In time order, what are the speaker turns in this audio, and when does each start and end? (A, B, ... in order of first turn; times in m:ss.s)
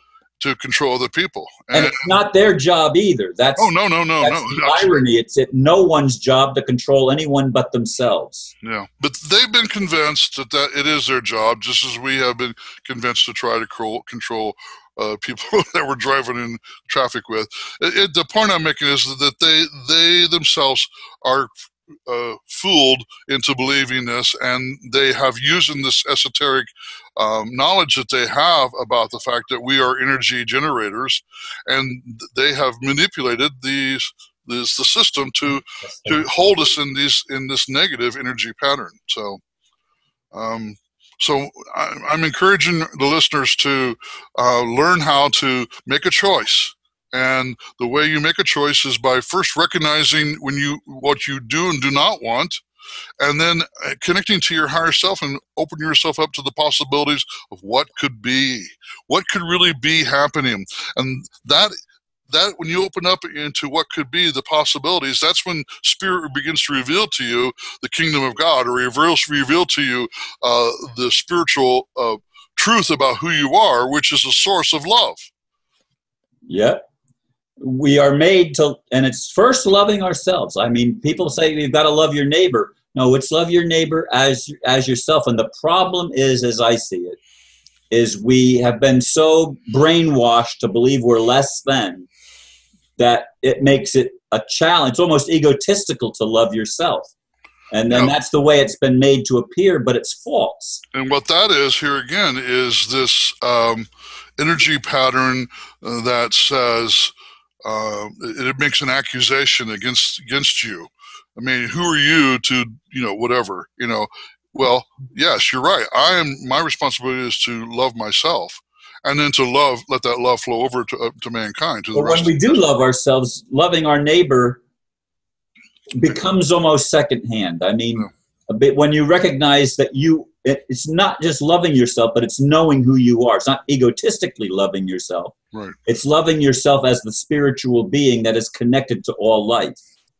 0:00.4-0:02.2 A
0:01.7-0:08.5 B
0:03.6-0:04.9 A
0:08.6-0:21.5 A
0:22.0-0:39.4 A
0:35.8-0:36.2 B
0:40.3-0:52.6 A
0:53.2-1:01.7 A
1:02.3-1:15.3 A
1:16.5-1:16.8 B
1:17.6-1:27.2 B
1:27.9-1:32.1 B
1:33.0-1:37.1 B
1:37.7-1:40.8 B
1:40.9-1:47.1 A
1:47.6-2:02.6 A
2:01.9-2:04.6 B
2:05.9-2:19.8 B